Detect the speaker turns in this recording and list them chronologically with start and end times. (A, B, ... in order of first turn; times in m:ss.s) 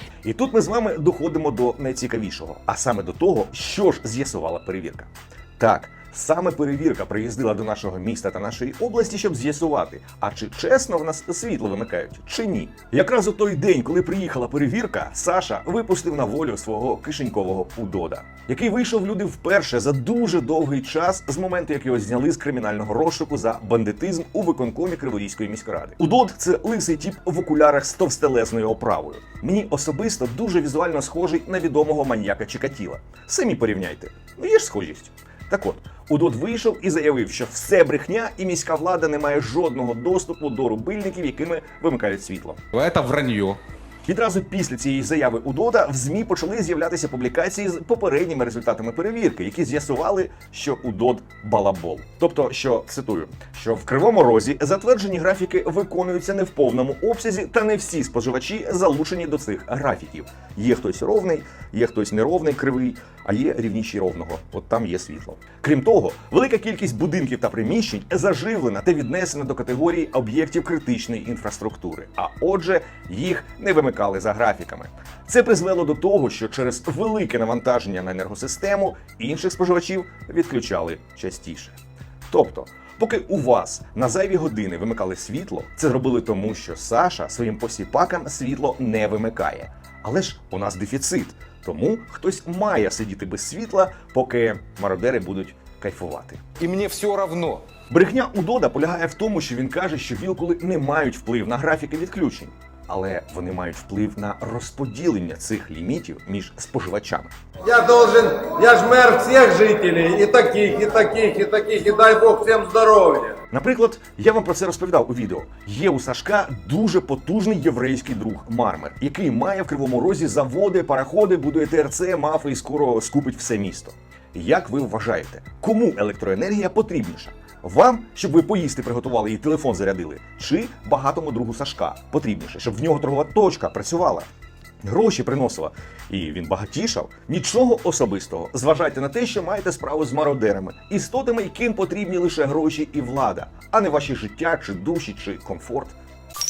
0:00.2-0:42.6 A
0:42.7-0:43.6 B
0:44.0-1:21.8 A
1:22.3-1:36.4 A
1:36.6-1:37.6 B
1:37.9-1:47.3 A
1:47.6-1:53.4 C
1:53.5-2:14.3 A
2:14.8-2:26.0 A